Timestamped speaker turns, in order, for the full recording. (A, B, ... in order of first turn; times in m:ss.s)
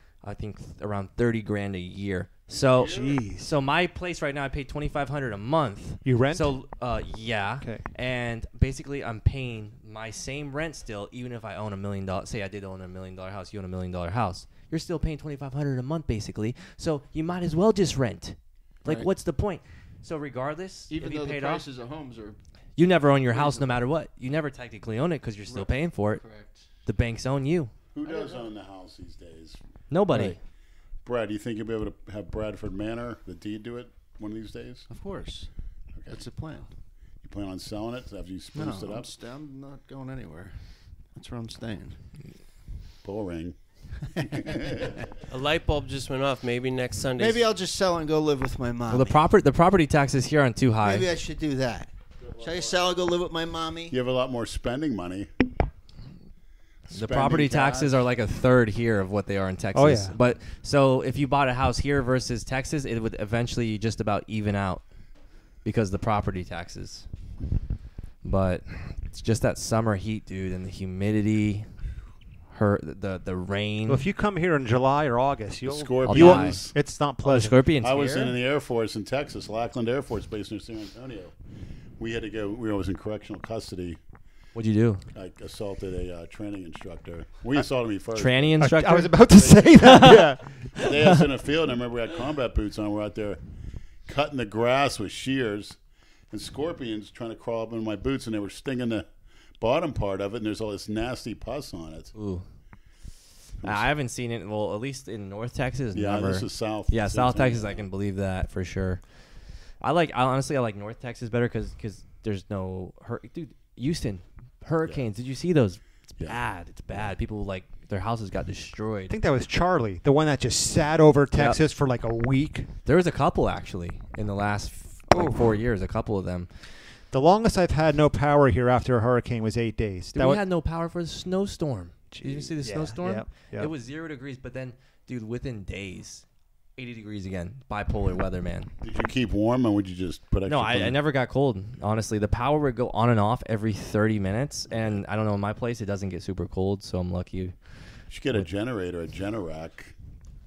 0:00.2-0:21.6 A
0:02.5-0:03.2 B
0:02.8-0:03.5 C
0:06.0-0:06.6 C
0:18.8-0:19.1 D
0:20.9-0:22.4 D
0:22.8-0:26.2 A
0:23.3-0:23.8 D
0:25.5-0:26.6 D
0:26.8-0:27.7 A
0:27.9-0:29.6 B
0:28.0-0:28.5 D
0:29.9-0:30.4 A
0:31.0-0:34.9 B
0:34.9-0:35.5 D
0:36.0-0:36.3 B
0:36.1-0:36.7 D
0:37.2-0:39.1 B
0:38.5-0:40.6 D
0:41.1-0:42.0 D
0:43.0-0:43.6 B
0:44.1-0:45.1 B
0:45.3-0:47.4 E
0:47.2-0:49.2 D
0:48.9-0:51.1 A
0:50.8-0:54.0 D
0:52.2-0:53.0 B
0:53.9-0:55.3 B
0:56.9-0:58.0 B
0:56.9-1:04.8 A
0:59.7-1:00.2 C
1:05.6-1:07.0 A
1:08.2-1:11.7 A
1:12.5-1:14.0 A
1:13.9-1:17.6 C
1:15.6-1:16.8 B
1:16.0-1:16.6 A
1:17.2-1:18.4 A
1:17.8-1:21.3 B
1:22.0-1:24.0 B
1:24.5-1:25.0 A
1:25.1-1:28.6 B
1:28.1-1:31.2 A
1:28.6-1:31.2 C
1:30.8-1:33.4 B
1:34.1-1:35.8 B
1:36.3-1:42.1 B
1:42.1-1:42.4 A
1:43.6-1:49.0 A
1:45.9-1:47.8 B
1:49.8-1:59.2 A
1:59.1-2:02.7 C
2:01.3-2:01.6 A
2:02.8-2:06.5 A
2:05.1-2:05.5 C
2:07.1-2:10.4 C
2:10.1-2:16.2 A
2:12.1-2:13.7 C
2:16.8-2:18.7 A
2:18.8-2:21.0 B
2:20.4-2:27.5 A
2:24.7-2:25.0 B
2:28.1-2:29.9 B